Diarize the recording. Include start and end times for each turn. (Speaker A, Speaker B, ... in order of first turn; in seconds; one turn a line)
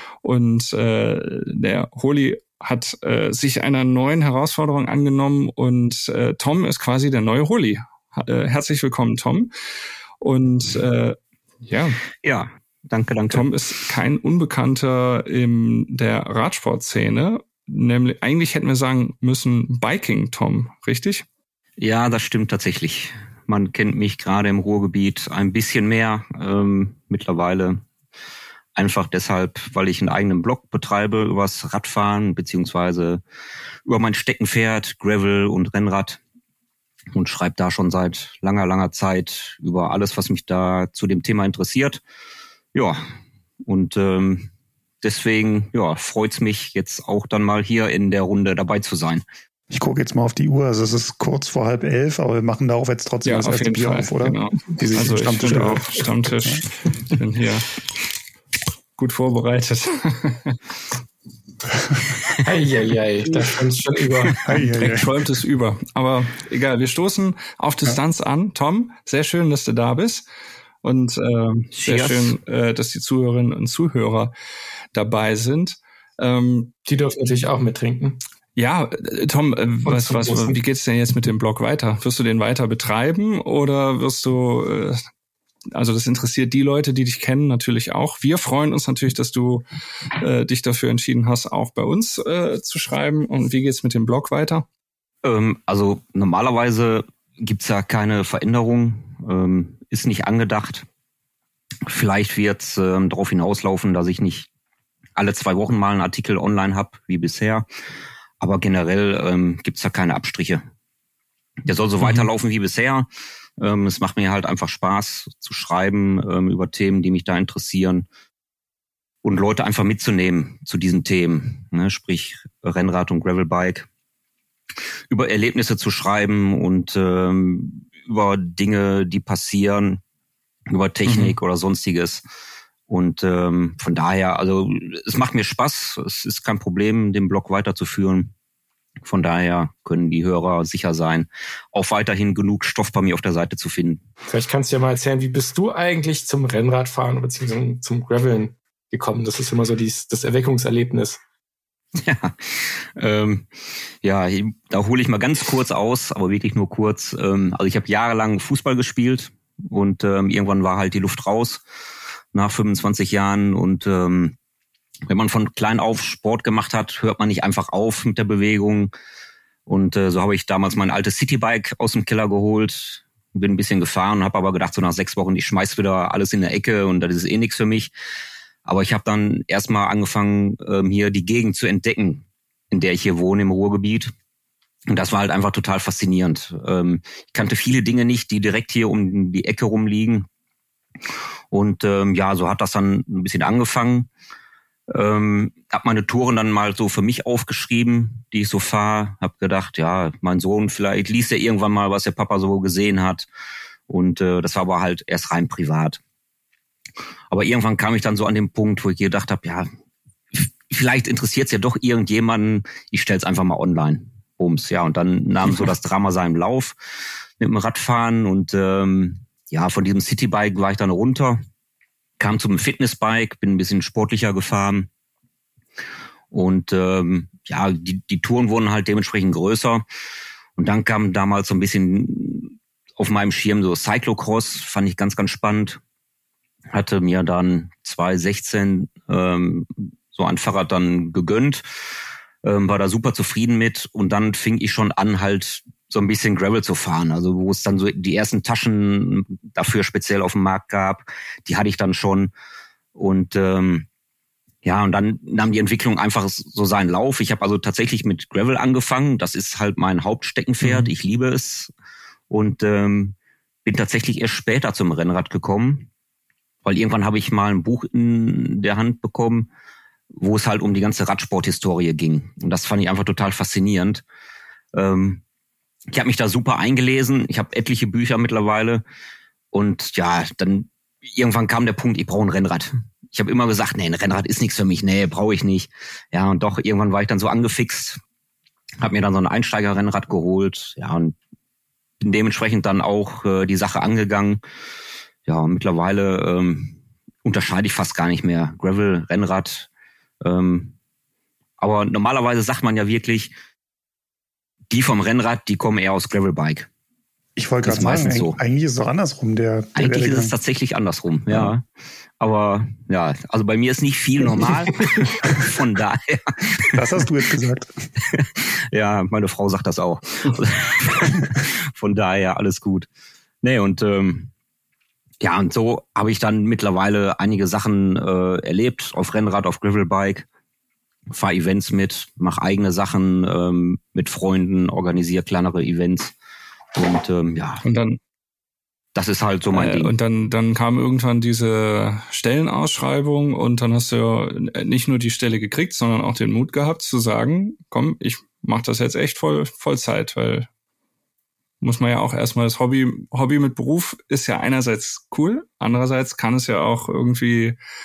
Speaker A: 0.2-9.5
Speaker A: 10.2-12.0
Speaker B: 12.2-13.5
Speaker A: 13.3-21.2
Speaker B: 21.8-27.8
Speaker B: 28.7-33.2
Speaker B: 33.8-36.2
Speaker B: 37.1-42.0
Speaker B: 42.7-43.0
Speaker B: 43.6-44.5
Speaker B: 45.0-49.2
Speaker C: 49.7-56.6
Speaker A: 53.2-57.7
Speaker A: 59.0-60.6
Speaker D: 62.4-64.4
Speaker C: 64.4-65.1
Speaker A: 64.5-70.2
Speaker A: 70.8-74.3
Speaker B: 71.7-72.3
Speaker A: 74.9-76.7
Speaker D: 76.9-78.2
Speaker A: 78.5-85.0
Speaker D: 79.8-80.6
Speaker A: 85.7-89.6
Speaker A: 90.2-94.7
Speaker B: 95.2-100.8
Speaker B: 101.8-104.5
Speaker B: 105.2-107.7
Speaker B: 108.4-110.6
Speaker B: 111.7-118.0
Speaker A: 112.0-112.3
Speaker B: 119.2-123.9
Speaker B: 125.1-130.0
Speaker B: 130.7-132.2
Speaker A: 131.1-131.4
Speaker B: 132.9-138.3
Speaker B: 139.0-144.0
Speaker D: 144.3-151.2
Speaker B: 152.0-153.5
Speaker B: 154.0-161.6
Speaker B: 162.3-164.3
Speaker B: 165.1-168.9
Speaker B: 169.7-177.9
Speaker B: 178.6-184.1
Speaker B: 184.9-190.3
Speaker B: 191.5-194.1
Speaker B: 194.9-203.3
Speaker B: 203.9-206.0
Speaker B: 207.3-209.7
Speaker B: 210.3-216.8
Speaker B: 217.4-221.4
Speaker B: 222.2-224.9
Speaker B: 226.3-229.8
Speaker B: 230.6-235.8
Speaker B: 236.7-241.6
Speaker B: 242.4-252.3
Speaker B: 252.9-253.9
Speaker B: 254.6-261.7
Speaker A: 260.6-260.9
Speaker B: 262.3-265.9
Speaker B: 266.6-269.5
Speaker B: 270.1-274.0
Speaker B: 274.7-275.2
Speaker B: 275.9-278.8
Speaker B: 279.5-288.0
Speaker B: 288.8-291.1
Speaker B: 292.0-294.4
Speaker B: 295.2-299.7
Speaker B: 300.2-300.7
Speaker B: 301.6-303.3
Speaker B: 304.7-306.7
Speaker C: 307.4-310.3
Speaker B: 307.6-308.4
Speaker B: 309.8-311.6
Speaker B: 312.2-317.0
Speaker C: 316.7-317.7
Speaker B: 318.0-322.9
Speaker B: 323.4-324.3
Speaker B: 325.2-330.2
Speaker B: 331.1-336.1
Speaker B: 336.7-337.6
Speaker A: 337.6-338.0
Speaker B: 338.9-339.9
Speaker A: 339.5-350.5
Speaker A: 351.6-357.6